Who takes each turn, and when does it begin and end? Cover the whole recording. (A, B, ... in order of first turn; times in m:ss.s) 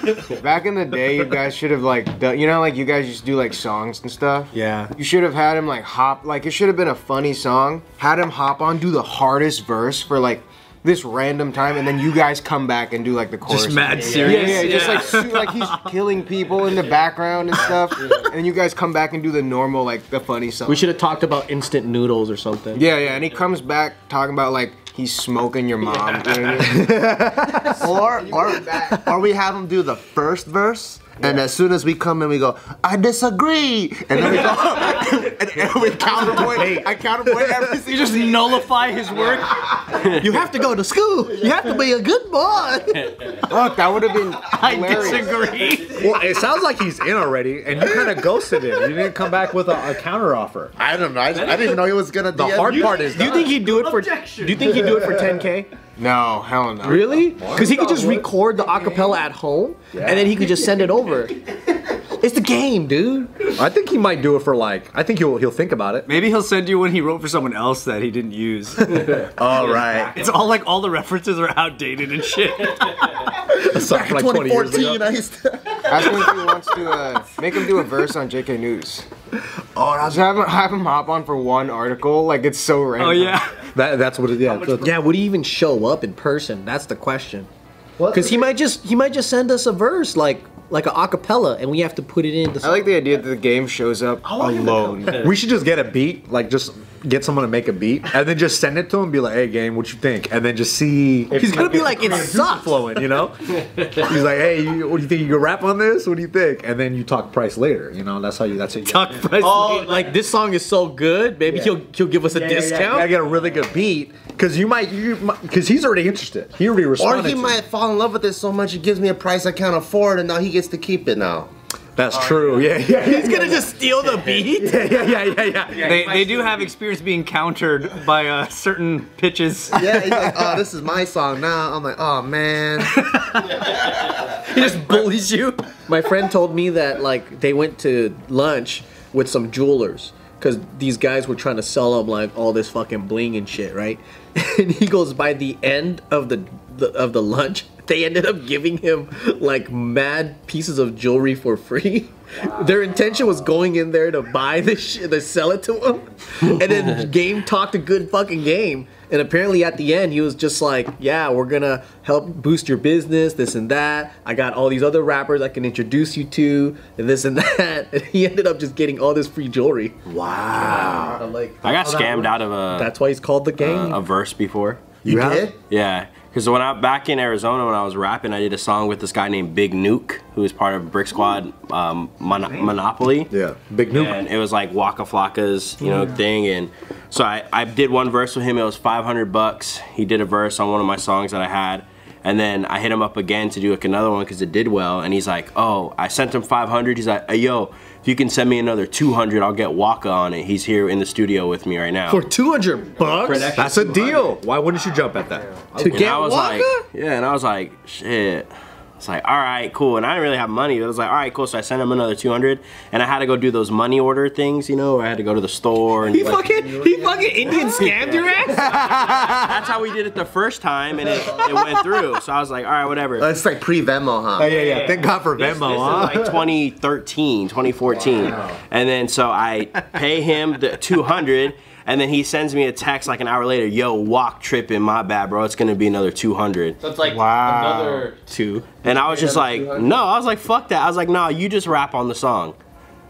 0:00.3-0:20.9 A
0:04.5-0:04.9 B
0:13.5-0:15.9 C
0:14.2-0:14.5 B
0:20.7-0:22.8 B
0:22.7-0:29.1 A
0:26.6-0:27.8 D
0:27.6-0:38.5 E
0:36.2-0:37.8 D
0:37.8-0:40.1 C
0:40.0-0:43.1 B
0:43.5-0:45.4 A
0:44.5-0:46.0 B
0:44.6-0:46.0 C
0:46.0-0:50.7 D
0:50.8-0:53.2 E
0:51.3-0:51.8 C
0:52.3-0:53.5 D
0:52.6-0:54.8 C
0:53.0-0:55.7 B
0:54.8-0:55.4 D
0:56.0-0:57.4 A
0:56.8-1:03.3 B
0:57.4-0:58.3 D
0:59.9-1:00.3 D
1:03.5-1:06.1 D
1:06.0-1:13.3 C
1:09.2-1:10.2 E
1:13.4-1:16.5 E
1:13.5-1:15.0 D
1:15.9-1:19.1 A
1:19.9-1:23.4 A
1:23.0-1:23.7 C
1:23.7-1:25.0 D
1:24.8-1:27.5 B
1:28.1-1:33.0 B
1:32.6-1:35.3 A
1:34.2-1:35.0 E
1:35.2-1:49.4 D
1:41.3-1:42.9 B
1:48.9-1:50.0 C
1:49.3-1:53.1 B
1:51.5-1:51.8 D
1:52.3-1:57.6 D
1:57.0-2:01.5 E
2:02.0-2:03.8 D
2:02.8-2:04.8 B
2:04.4-2:06.3 D
2:05.7-2:09.9 C
2:09.7-2:13.1 E
2:09.9-2:10.6 D
2:12.9-2:13.6 C
2:13.6-2:54.0 B
2:14.6-2:15.2 C
2:50.1-2:51.2 D
2:50.7-2:51.0 E
2:51.6-2:52.9 F
2:53.6-2:54.9 F
2:55.0-2:55.5 D
2:55.0-2:55.6 E
2:55.7-3:03.3 F
3:03.3-3:04.2 D
3:03.9-3:22.2 F
3:22.1-3:23.7 B
3:23.5-3:26.3 D
3:23.6-3:24.1 C
3:25.8-3:26.8 B
3:25.9-3:36.5 F
3:36.1-3:38.8 B
3:36.4-3:37.5 A
3:37.8-3:43.3 F
3:38.5-3:39.7 D
3:43.2-3:44.5 E
3:44.4-3:46.4 D
3:44.5-3:45.0 C
3:45.4-3:56.8 F
3:48.0-3:48.5 E
3:56.8-3:58.0 C
3:57.0-3:58.1 E
3:58.0-3:58.7 B
3:58.8-4:02.6 F
3:58.9-3:59.9 E